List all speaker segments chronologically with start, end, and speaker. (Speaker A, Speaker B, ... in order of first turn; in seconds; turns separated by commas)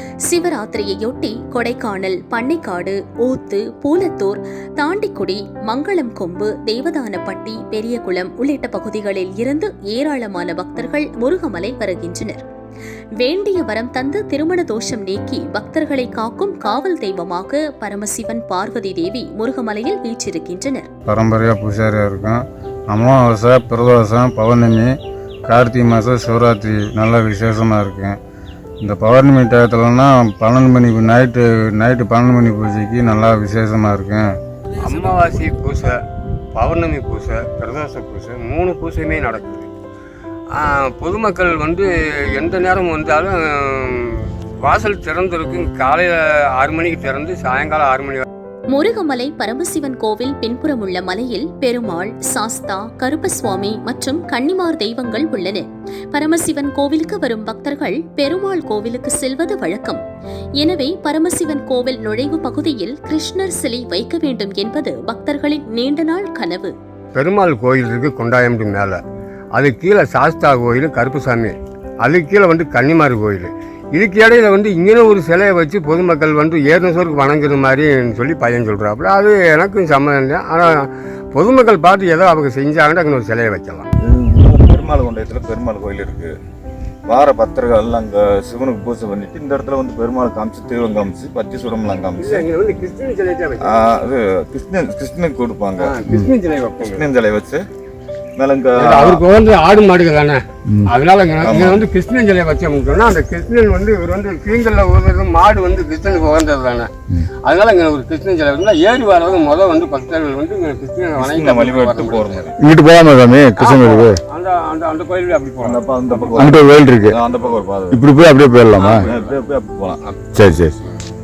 Speaker A: 0.2-12.4, Speaker A: 13.2-20.9, Speaker B: 21.1-28.2, Speaker B: 28.8-34.4, Speaker C: 34.8-36.0, Speaker C: 36.5-39.7, Speaker C: 40.5-48.2, Speaker A: 48.7-60.0, Speaker A: 60.6-66.8, Speaker C: 67.1-69.0, Speaker C: 69.5-83.9, Speaker D: 84.0-86.3, Speaker D: 87.1-92.5, Speaker C: 92.2-93.8, Speaker D: 93.6-96.0, Speaker C: 95.8-97.1, Speaker D: 96.8-97.7, Speaker D: 98.4-99.2, Speaker C: 98.8-106.9, Speaker D: 101.4-101.8, Speaker C: 107.4-112.5, Speaker D: 111.2-112.6, Speaker E: 112.6-114.2, Speaker C: 113.6-116.5, Speaker D: 115.6-118.0, Speaker E: 116.4-117.2, Speaker E: 117.9-119.1, Speaker C: 118.8-119.2, Speaker D: 118.9-120.0, Speaker E: 120.3-120.8